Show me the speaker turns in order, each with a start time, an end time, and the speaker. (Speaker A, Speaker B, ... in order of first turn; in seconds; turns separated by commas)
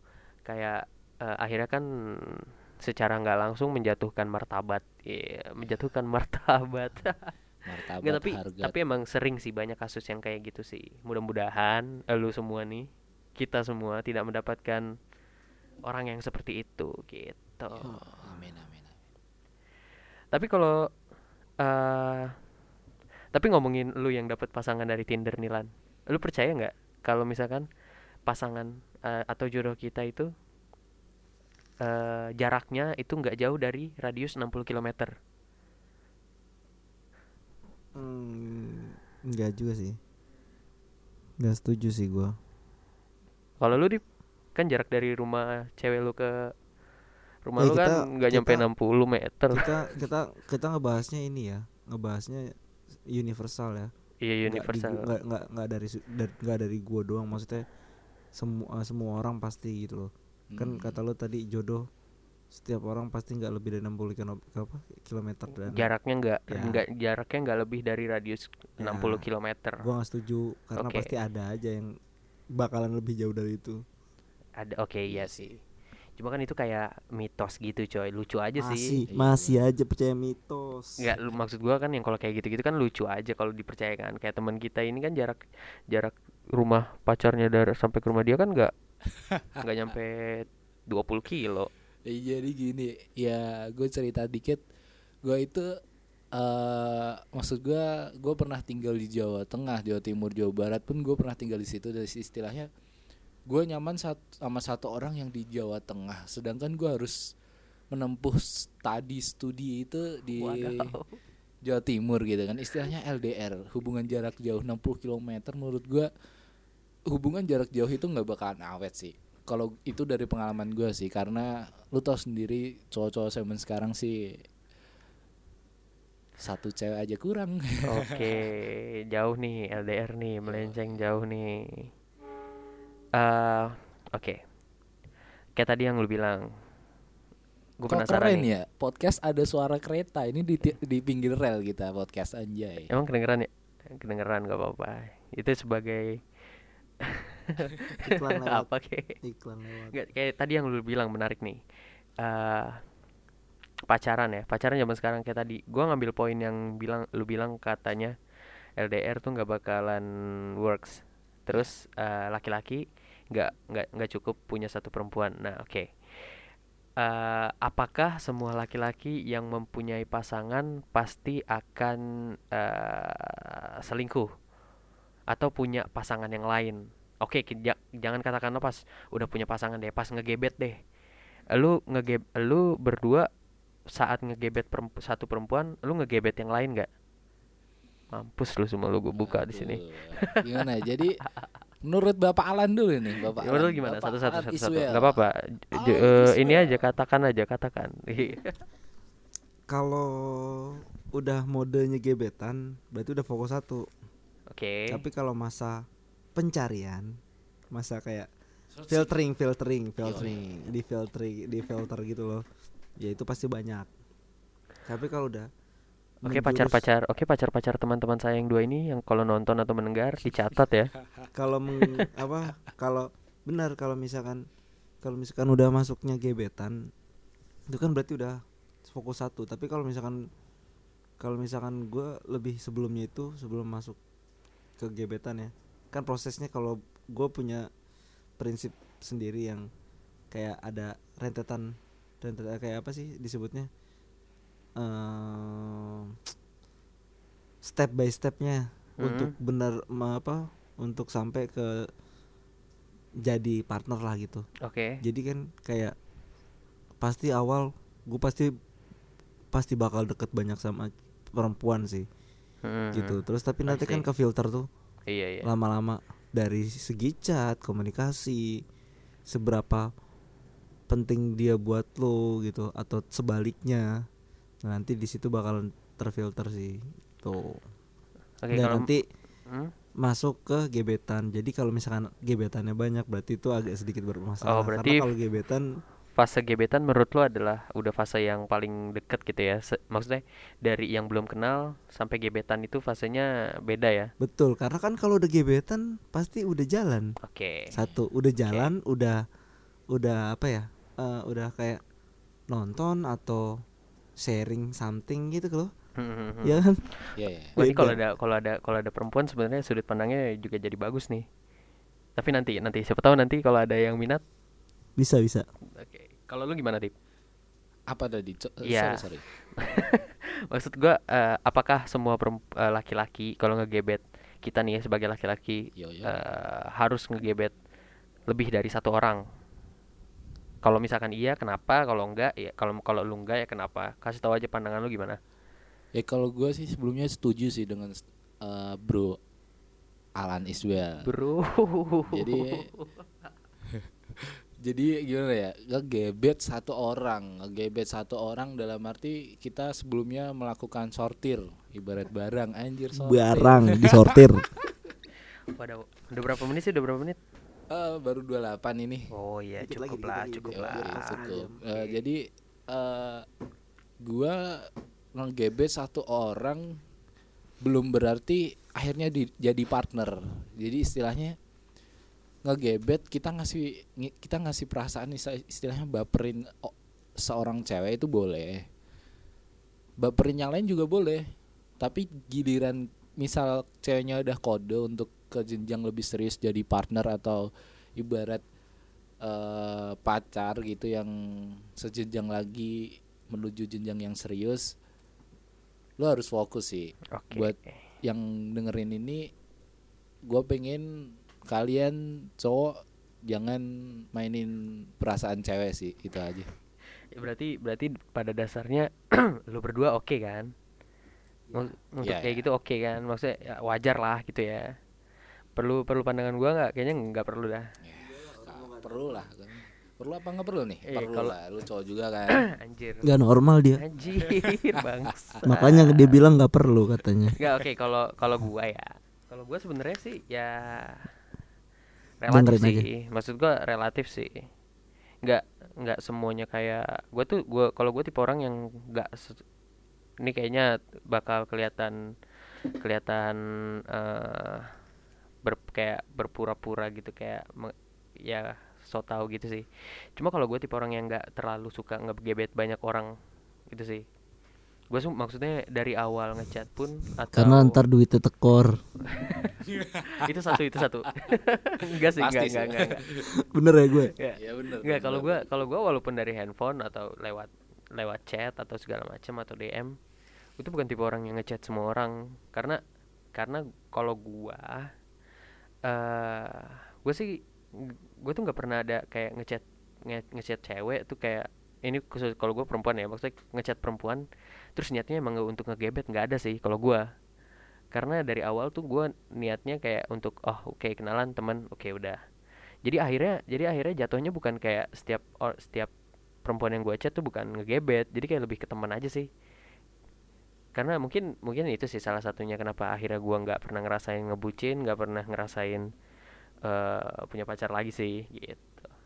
Speaker A: 0.5-7.3, Speaker B: 7.6-8.8, Speaker A: 8.0-14.8, Speaker A: 15.8-17.9, Speaker B: 17.8-19.0, Speaker A: 20.3-20.8, Speaker A: 21.6-22.4, Speaker A: 23.3-27.6, Speaker A: 28.2-30.3, Speaker A: 31.8-35.1, Speaker C: 37.9-40.0, Speaker C: 41.4-42.3, Speaker A: 43.6-44.0, Speaker A: 44.5-46.5, Speaker A: 47.4-49.6, Speaker C: 47.6-48.7, Speaker C: 49.5-52.5, Speaker C: 53.1-53.9, Speaker A: 54.2-55.0, Speaker C: 54.5-57.6, Speaker C: 58.3-61.9, Speaker B: 60.5-61.0, Speaker C: 62.5-65.9, Speaker A: 65.6-69.8, Speaker C: 66.5-66.8, Speaker C: 68.8-69.2, Speaker C: 69.8-71.9, Speaker A: 70.8-71.1, Speaker C: 72.5-73.8, Speaker A: 74.6-75.6, Speaker B: 75.1-75.5, Speaker A: 76.2-79.0, Speaker C: 78.6-81.2, Speaker B: 79.1-79.6, Speaker A: 81.0-88.7, Speaker B: 89.3-89.6, Speaker A: 89.6-91.7, Speaker B: 92.0-94.6, Speaker B: 95.2-95.7, Speaker B: 96.3-102.7, Speaker B: 103.5-107.2, Speaker B: 107.9-110.9, Speaker A: 110.4-111.2, Speaker B: 111.7-116.1, Speaker B: 117.1-124.4, Speaker B: 126.4-128.4, Speaker A: 127.8-131.9, Speaker B: 130.4-131.0, Speaker A: 133.2-134.4, Speaker A: 135.6-136.5, Speaker A: 137.8-138.5, Speaker B: 137.9-142.9, Speaker A: 142.9-146.2, Speaker A: 147.0-149.1, Speaker C: 148.0-148.7, Speaker C: 149.2-150.0, Speaker A: 149.9-151.6, Speaker A: 152.2-152.8, Speaker A: 153.9-158.1, Speaker A: 158.8-160.1, Speaker A: 160.6-166.4, Speaker A: 167.0-172.0, Speaker A: 172.5-174.3, Speaker A: 175.3-180.8, Speaker A: 181.5-183.3, Speaker A: 183.9-186.9, Speaker A: 188.1-190.4, Speaker B: 189.1-191.2, Speaker B: 191.8-195.2, Speaker A: 193.4-198.6, Speaker B: 195.7-196.9, Speaker C: 199.7-203.8, Speaker A: 204.5-205.0, Speaker C: 204.9-205.8, Speaker C: 206.3-207.1, Speaker C: 207.7-208.3, Speaker B: 208.7-209.2, Speaker C: 208.9-212.4, Speaker B: 210.0-210.6, Speaker C: 213.0-213.9, Speaker C: 214.8-215.5, Speaker C: 216.2-216.8, Speaker A: 216.2-220.9, Speaker C: 221.3-224.4, Speaker C: 225.0-226.8, Speaker C: 227.7-230.2, Speaker C: 231.2-234.0, Speaker C: 234.8-237.7, Speaker C: 238.4-239.7, Speaker C: 240.3-241.7, Speaker C: 242.2-243.7, Speaker C: 244.8-246.2, Speaker C: 247.6-251.9, Speaker A: 249.0-249.3, Speaker C: 253.2-254.4, Speaker A: 254.7-255.0, Speaker C: 255.0-255.9, Speaker C: 257.0-258.5, Speaker C: 259.5-262.1, Speaker A: 262.6-264.0, Speaker C: 262.9-264.7, Speaker A: 265.1-265.5, Speaker C: 265.4-268.6, Speaker C: 269.3-269.9, Speaker C: 270.9-273.9, Speaker C: 274.6-277.6, Speaker A: 278.4-278.9, Speaker C: 278.5-279.0, Speaker C: 280.0-285.6, Speaker A: 284.4-285.1, Speaker A: 286.2-294.1, Speaker C: 294.2-297.1, Speaker A: 297.2-297.7, Speaker B: 297.7-298.0, Speaker C: 297.7-299.2, Speaker A: 298.4-298.7, Speaker C: 299.9-301.8, Speaker C: 302.5-303.5, Speaker C: 304.2-305.7, Speaker A: 306.0-311.2, Speaker C: 306.4-306.8, Speaker B: 307.1-307.6, Speaker C: 307.6-308.0, Speaker A: 312.1-314.2, Speaker C: 315.0-315.4, Speaker A: 315.8-316.9, Speaker B: 317.9-319.2, Speaker A: 318.6-319.1, Speaker A: 319.6-327.5, Speaker B: 325.8-326.3, Speaker A: 328.3-329.2, Speaker A: 330.6-335.2, Speaker B: 335.9-339.2, Speaker B: 340.2-341.0, Speaker A: 341.0-343.0, Speaker B: 342.1-342.7, Speaker B: 343.7-354.1, Speaker C: 353.0-354.4, Speaker A: 355.5-357.2, Speaker B: 357.7-359.1, Speaker A: 359.1-361.1, Speaker C: 359.6-361.7, Speaker B: 360.5-362.2, Speaker B: 362.7-363.2, Speaker B: 364.0-366.8, Speaker B: 367.6-371.3, Speaker B: 372.4-378.6, Speaker B: 380.0-381.2, Speaker B: 381.8-387.4, Speaker B: 388.0-388.4, Speaker B: 389.2-394.7, Speaker B: 396.0-399.3, Speaker A: 397.1-397.7, Speaker B: 400.2-406.5, Speaker A: 407.1-408.9, Speaker A: 409.5-410.5, Speaker C: 411.5-411.7, Speaker A: 411.5-414.7, Speaker B: 412.0-412.4, Speaker A: 415.6-417.7, Speaker B: 417.8-422.4, Speaker C: 418.1-419.2, Speaker A: 420.9-421.3, Speaker A: 422.5-423.1, Speaker C: 423.0-423.8, Speaker A: 423.8-426.2, Speaker B: 424.2-424.9, Speaker C: 425.4-427.3, Speaker A: 427.4-431.1, Speaker A: 432.2-434.5, Speaker C: 432.3-432.9, Speaker A: 435.2-439.4, Speaker A: 440.2-441.9, Speaker A: 442.8-444.7, Speaker A: 445.4-453.1, Speaker A: 453.7-454.1, Speaker A: 454.9-457.8, Speaker C: 457.3-458.7, Speaker A: 459.1-459.6, Speaker B: 459.6-463.2, Speaker A: 460.2-463.0, Speaker C: 463.4-464.1, Speaker A: 464.2-469.9, Speaker B: 464.4-465.6, Speaker A: 470.6-472.8, Speaker A: 473.3-474.9, Speaker A: 475.8-484.2, Speaker A: 484.8-487.0, Speaker A: 487.9-492.2, Speaker A: 492.8-495.9, Speaker A: 496.4-499.3, Speaker A: 500.7-505.9, Speaker A: 506.6-508.9